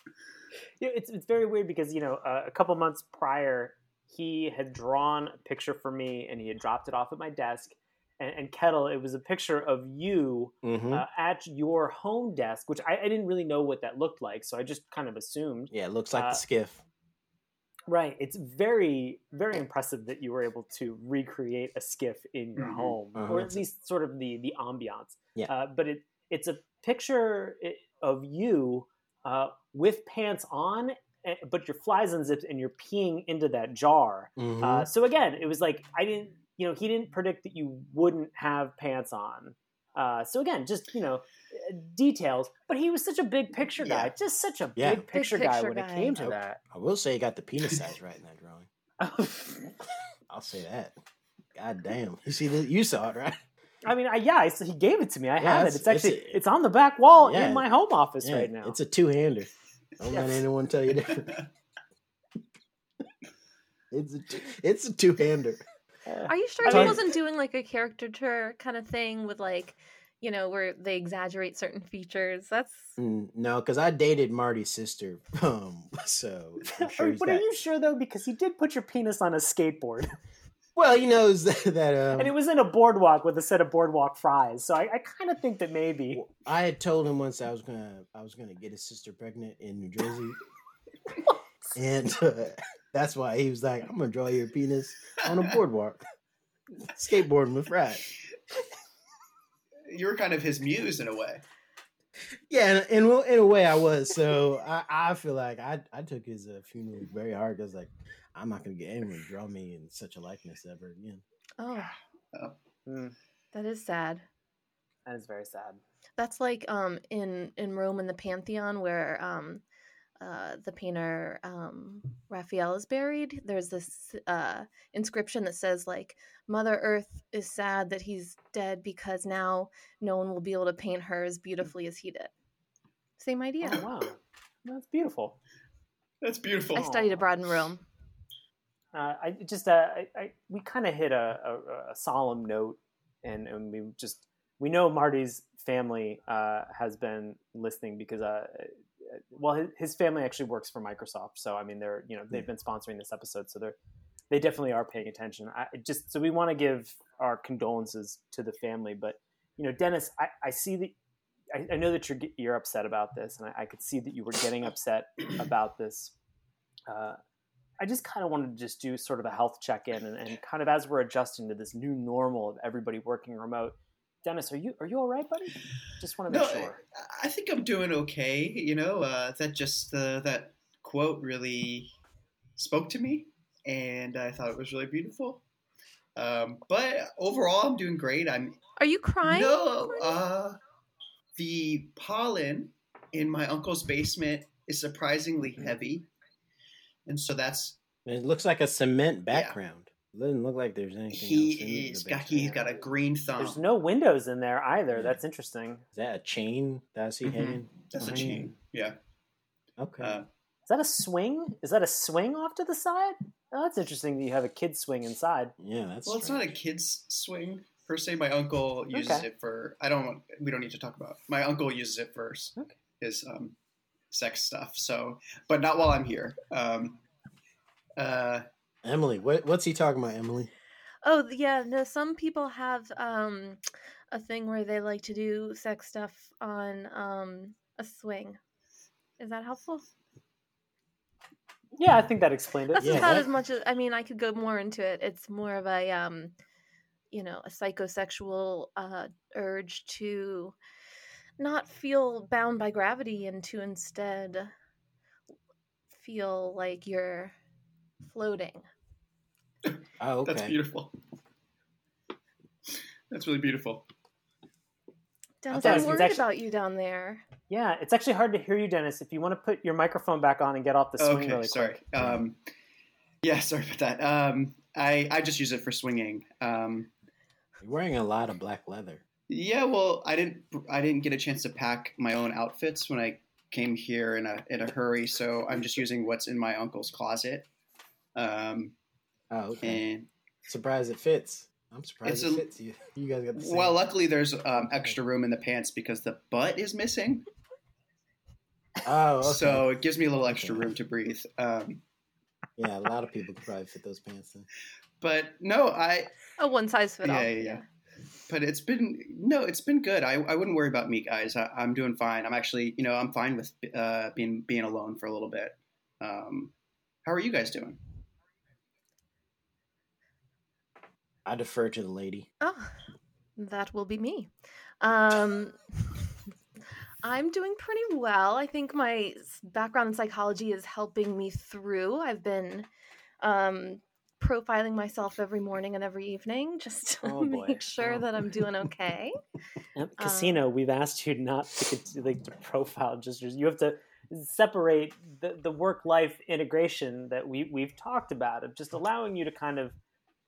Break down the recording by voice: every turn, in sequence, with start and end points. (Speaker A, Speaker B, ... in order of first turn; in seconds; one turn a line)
Speaker A: 0.8-16.4
Speaker B: 10.6-11.1
Speaker B: 15.7-16.8
Speaker A: 17.9-46.6
Speaker C: 22.6-23.0
Speaker B: 23.2-23.6
Speaker B: 34.4-34.9
Speaker C: 43.8-44.1
Speaker B: 44.8-45.1
Speaker D: 45.1-46.2
Speaker B: 46.2-48.7
Speaker A: 49.0-49.8
Speaker B: 50.3-50.9
Speaker B: 51.5-53.4
Speaker A: 53.9-58.8
Speaker B: 55.4-56.4
Speaker B: 57.1-57.7
Speaker B: 58.2-61.4
Speaker A: 60.1-60.4
Speaker B: 63.9-65.6
Speaker A: 66.1-67.0
Speaker D: 66.3-73.0
Speaker B: 66.7-67.0
Speaker B: 73.0-77.5
Speaker A: 76.8-80.1
Speaker B: 80.8-82.3
Speaker A: 82.2-86.2
Speaker B: 86.1-90.4
Speaker B: 91.8-96.0
Speaker B: 96.8-98.0
Speaker C: 99.9-101.4
Speaker B: 102.5-111.2
Speaker D: 111.6-112.0
Speaker A: 112.9-113.2
Speaker D: 113.5-114.2
Speaker A: 115.1-115.8
Speaker D: 116.2-119.6
Speaker D: 120.2-132.3
Speaker D: 133.2-133.8
Speaker A: 133.6-135.4
Speaker C: 136.2-137.0
Speaker A: 136.8-137.2
Speaker D: 136.8-137.8
Speaker A: 138.9-153.8
Speaker A: 154.3-161.0
Speaker A: 161.5-166.2
Speaker A: 166.9-167.2
Speaker A: 167.8-176.8
Speaker C: 176.3-181.9
Speaker C: 182.6-185.4
Speaker C: 186.2-188.6
Speaker D: 188.8-190.2
Speaker C: 189.2-190.6
Speaker C: 191.4-196.1
Speaker C: 197.1-197.8
Speaker B: 198.1-202.7
Speaker C: 199.3-199.6
Speaker C: 201.1-203.6
Speaker A: 203.4-205.8
Speaker B: 205.9-208.5
Speaker C: 207.2-209.0
Speaker B: 209.8-210.2
Speaker C: 210.0-210.3
Speaker A: 210.7-215.5
Speaker B: 215.6-216.5
Speaker C: 216.1-223.6
Speaker A: 218.9-219.3
Speaker C: 224.1-227.0
Speaker C: 228.0-228.5
Speaker B: 228.8-230.5
Speaker D: 231.0-233.6
Speaker D: 234.1-238.4
Speaker D: 239.2-239.8
Speaker A: 241.8-243.2
Speaker D: 242.7-246.3
Speaker B: 242.8-243.3
Speaker D: 247.1-250.6
Speaker D: 251.4-254.5
Speaker D: 255.9-257.4
Speaker D: 258.0-258.7
Speaker C: 259.7-260.9
Speaker B: 260.0-260.6
Speaker C: 263.1-263.9
Speaker D: 265.4-267.3
Speaker B: 265.5-266.1
Speaker A: 265.5-266.2
Speaker A: 267.5-272.1
Speaker C: 271.0-272.4
Speaker C: 273.2-276.9
Speaker B: 277.6-279.0
Speaker C: 279.3-287.5
Speaker C: 288.1-288.7
Speaker B: 289.3-289.9
Speaker C: 289.6-290.1
Speaker B: 290.5-293.8
Speaker C: 292.1-292.5
Speaker C: 293.4-297.3
Speaker B: 298.8-299.7
Speaker C: 299.2-301.8
Speaker B: 300.3-300.7
Speaker B: 302.6-304.5
Speaker C: 305.0-306.1
Speaker D: 306.4-307.6
Speaker C: 307.0-307.6
Speaker C: 308.3-316.5
Speaker C: 317.1-317.8
Speaker B: 321.3-322.3
Speaker D: 322.4-322.7
Speaker D: 323.4-326.1
Speaker D: 327.0-332.7
Speaker D: 333.2-339.1
Speaker A: 337.1-337.6
Speaker B: 337.2-338.1
Speaker A: 339.8-349.8
Speaker D: 340.0-340.4